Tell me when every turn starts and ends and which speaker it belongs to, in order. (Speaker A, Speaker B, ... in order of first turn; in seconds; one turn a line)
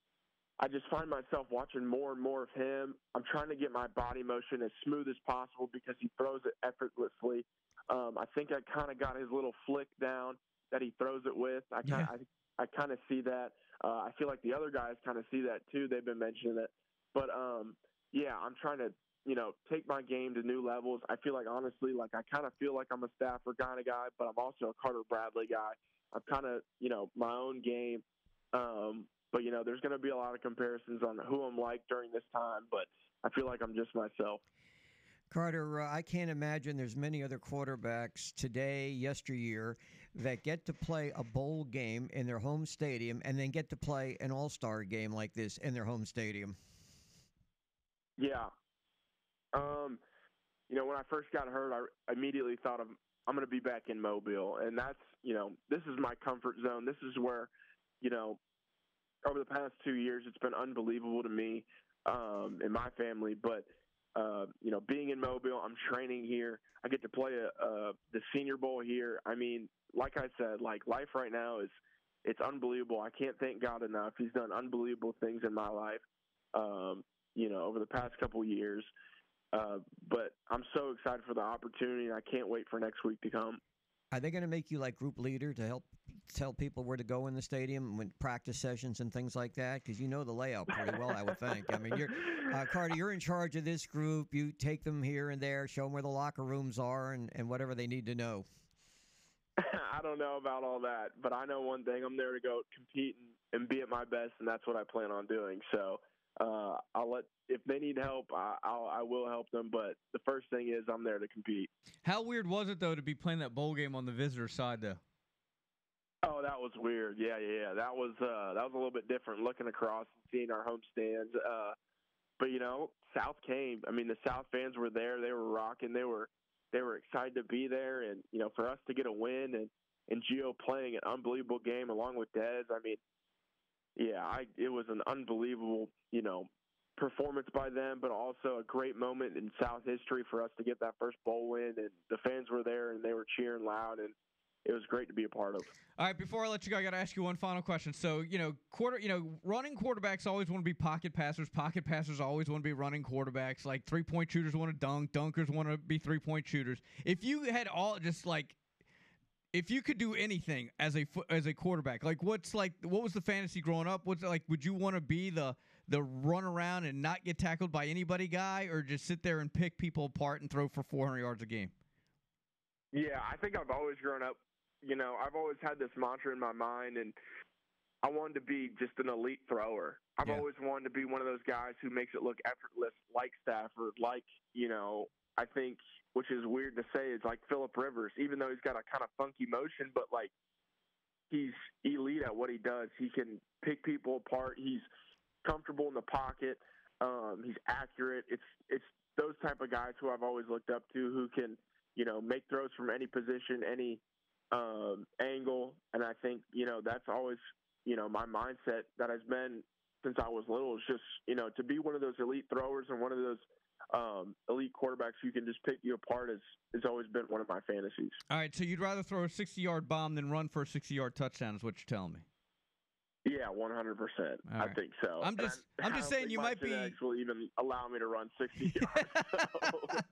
Speaker A: 0.6-34.4
Speaker B: 35.3-46.6
Speaker A: 48.2-48.5
Speaker A: 49.5-50.0
Speaker A: 50.7-57.5
Speaker A: 58.0-58.4
Speaker A: 59.2-76.0
Speaker A: 76.5-78.9
Speaker A: 79.5-83.6
Speaker B: 84.1-98.5
Speaker A: 99.6-111.7
Speaker C: 112.0-115.0
Speaker A: 116.2-121.8
Speaker A: 122.4-133.0
Speaker A: 134.0-145.7
Speaker C: 146.0-158.6
Speaker C: 159.5-171.7
Speaker A: 172.9-177.2
Speaker A: 178.0-190.3
Speaker A: 191.3-194.9
Speaker A: 195.4-204.0
Speaker A: 204.5-218.2
Speaker C: 218.3-222.3
Speaker A: 223.2-230.0
Speaker C: 224.5-227.0
Speaker C: 228.8-229.4